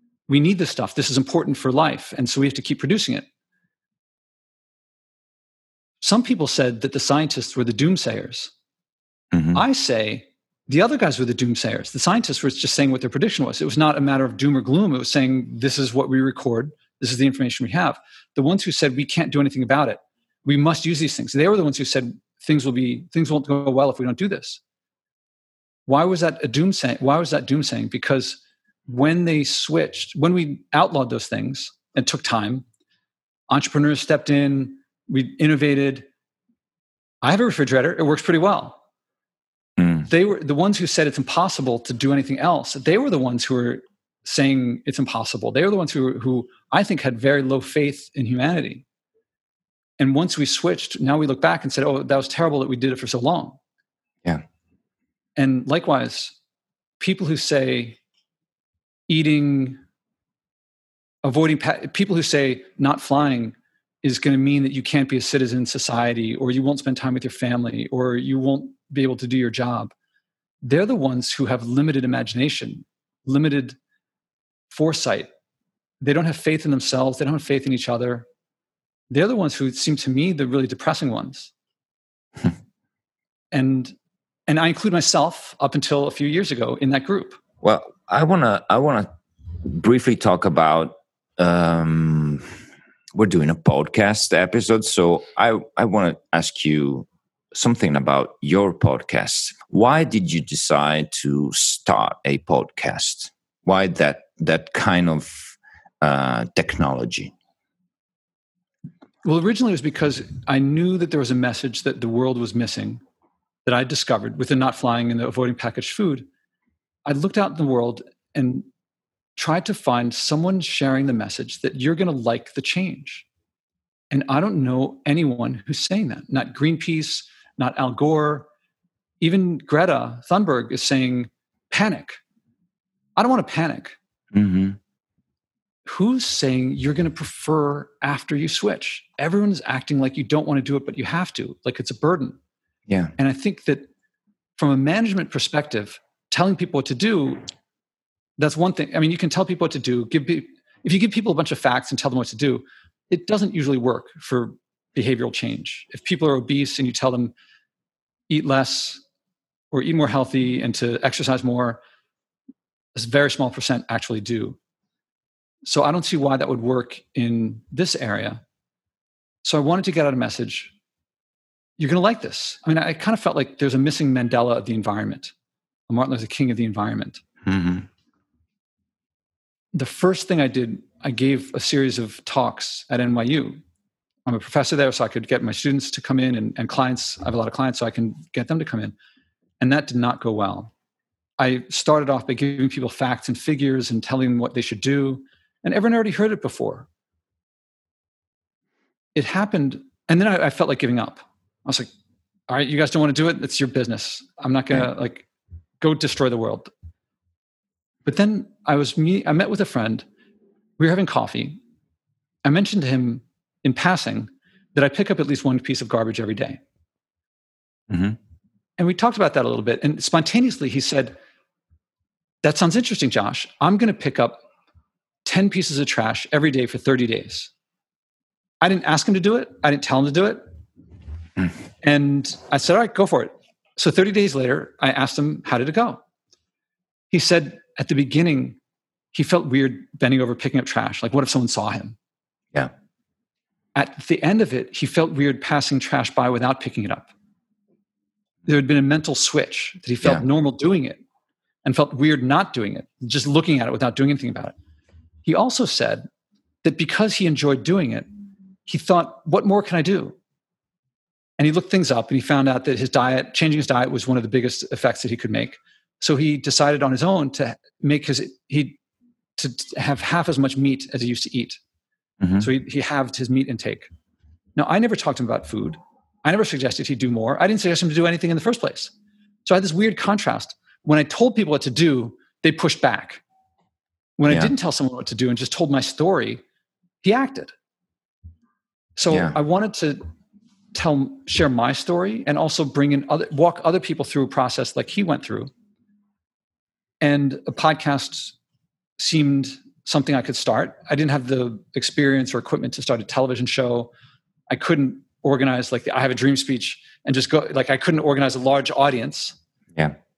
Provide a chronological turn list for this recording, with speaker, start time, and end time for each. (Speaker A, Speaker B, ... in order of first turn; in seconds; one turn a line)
Speaker A: 0.3-3.3
Speaker A: 6.0-8.5
Speaker B: 9.3-9.6
Speaker A: 9.5-24.6
Speaker A: 25.9-32.6
Speaker A: 33.5-36.1
Speaker A: 37.2-38.8
Speaker B: 39.8-40.0
Speaker A: 40.0-48.8
Speaker A: 50.0-53.6
Speaker A: 55.4-56.4
Speaker A: 57.0-58.0
Speaker A: 59.1-59.8
Speaker A: 61.2-69.9
Speaker A: 70.6-73.8
Speaker A: 74.7-75.3
Speaker A: 76.0-78.3
Speaker A: 79.1-81.5
Speaker A: 83.5-83.9
Speaker A: 84.5-87.4
Speaker B: 87.6-89.1
Speaker B: 89.6-92.5
Speaker B: 93.1-107.3
Speaker A: 109.2-113.0
Speaker A: 113.7-116.3
Speaker A: 117.1-118.7
Speaker A: 119.4-123.3
Speaker A: 124.1-128.5
Speaker A: 129.2-132.2
Speaker A: 133.2-134.0
Speaker B: 134.3-134.8
Speaker A: 135.9-142.4
Speaker B: 142.9-143.1
Speaker A: 143.2-143.9
Speaker A: 144.6-147.4
Speaker A: 148.4-157.3
Speaker A: 158.3-159.0
Speaker A: 159.7-161.8
Speaker A: 162.9-164.6
Speaker A: 165.7-168.4
Speaker A: 169.4-170.7
Speaker A: 171.8-175.3
Speaker A: 175.9-177.2
Speaker B: 177.4-177.9
Speaker A: 179.7-183.6
Speaker A: 184.3-189.0
Speaker A: 189.6-190.7
Speaker A: 191.4-196.9
Speaker A: 199.2-201.9
Speaker A: 202.5-205.3
Speaker A: 205.8-206.7
Speaker A: 208.1-210.1
Speaker A: 210.8-211.6
Speaker A: 212.4-216.6
Speaker B: 217.9-218.2
Speaker A: 218.8-221.2
Speaker A: 222.4-224.4
Speaker A: 225.2-227.5
Speaker A: 228.6-230.5
Speaker A: 231.8-236.0
Speaker A: 237.1-238.6
Speaker A: 239.1-242.0
Speaker A: 243.8-247.1
Speaker A: 248.5-251.0
Speaker A: 251.6-254.6
Speaker A: 255.2-256.1
Speaker A: 256.6-258.1
Speaker A: 258.7-260.2
Speaker A: 261.4-268.8
Speaker A: 269.4-271.6
Speaker B: 272.2-272.5
Speaker A: 272.4-273.9
Speaker A: 274.6-278.9
Speaker A: 279.4-283.2
Speaker A: 284.2-286.4
Speaker A: 287.0-287.5
Speaker A: 289.0-290.0
Speaker B: 289.1-289.4
Speaker A: 290.7-295.5
Speaker A: 297.0-298.4
Speaker A: 299.0-303.9
Speaker A: 304.5-309.4